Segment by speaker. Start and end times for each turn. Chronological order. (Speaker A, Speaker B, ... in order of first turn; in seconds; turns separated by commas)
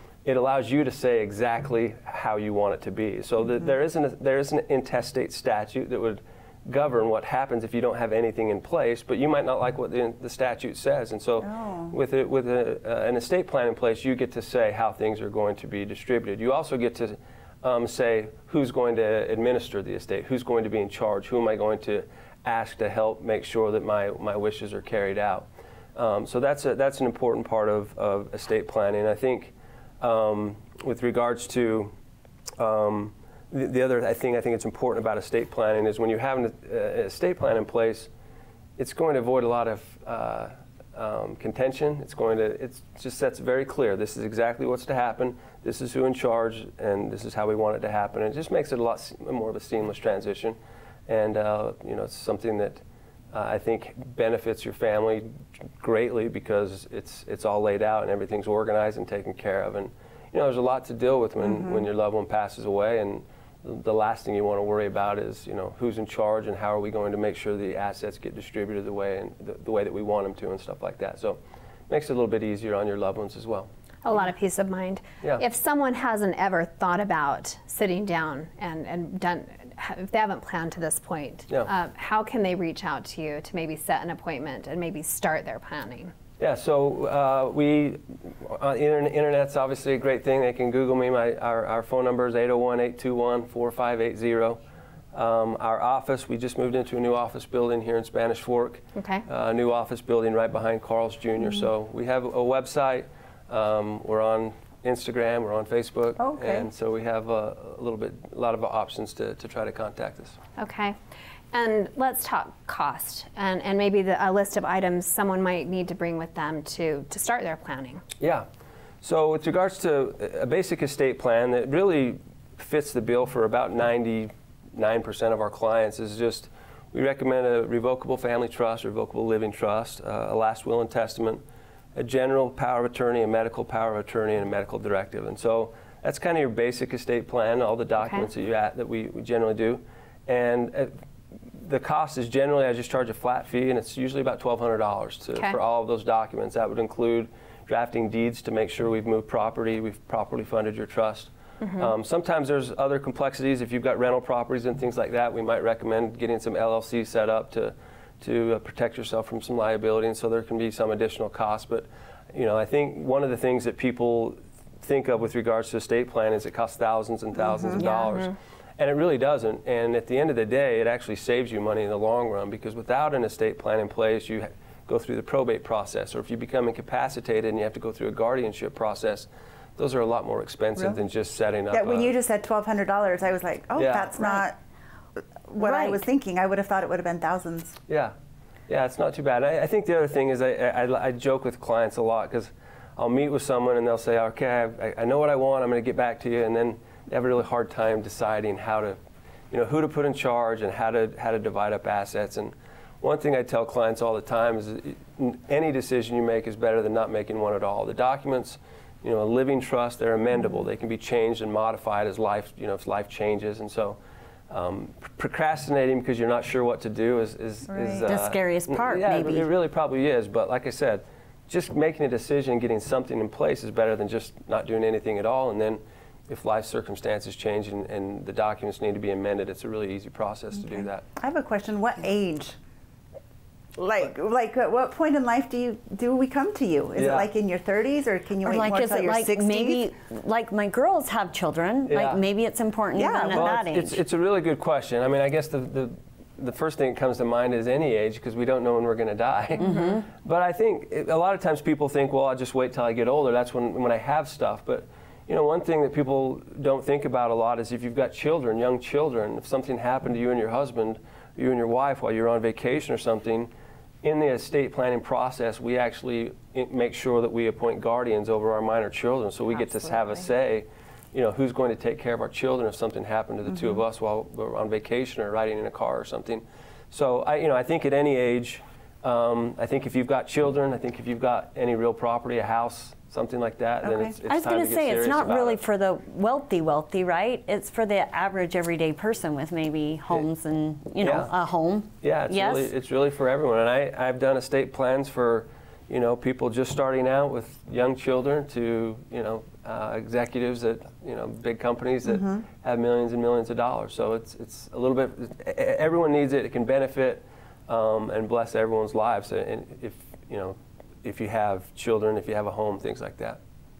Speaker A: 0.2-31.9, Speaker B: 11.4-11.9, Speaker A: 32.6-38.1, Speaker A: 38.8-73.7, Speaker B: 61.4-61.9, Speaker C: 74.0-86.1, Speaker A: 86.4-94.6, Speaker A: 95.1-110.4, Speaker C: 99.0-99.2, Speaker B: 106.2-106.7, Speaker C: 110.6-111.0, Speaker C: 111.5-118.0, Speaker A: 118.2-118.5, Speaker A: 119.0-131.4, Speaker A: 131.9-140.9, Speaker A: 141.6-182.1, Speaker C: 151.6-151.9, Speaker B: 167.4-167.8, Speaker C: 167.8-168.3, Speaker B: 181.7-184.6, Speaker A: 183.8-184.3, Speaker B: 185.5-187.8, Speaker D: 185.6-186.1, Speaker A: 187.9-188.1, Speaker A: 188.7-199.0, Speaker A: 199.5-231.0, Speaker B: 217.7-218.1, Speaker D: 218.0-219.5, Speaker B: 230.7-232.6, Speaker B: 233.8-239.9, Speaker A: 236.9-237.3, Speaker D: 238.4-244.0, Speaker A: 241.9-242.2, Speaker B: 242.9-243.6, Speaker A: 243.3-263.5, Speaker D: 249.7-250.0, Speaker A: 264.0-285.6, Speaker B: 283.8-284.2, Speaker D: 284.2-292.7, Speaker A: 291.0-291.3, Speaker A: 292.0-313.4, Speaker B: 302.1-302.4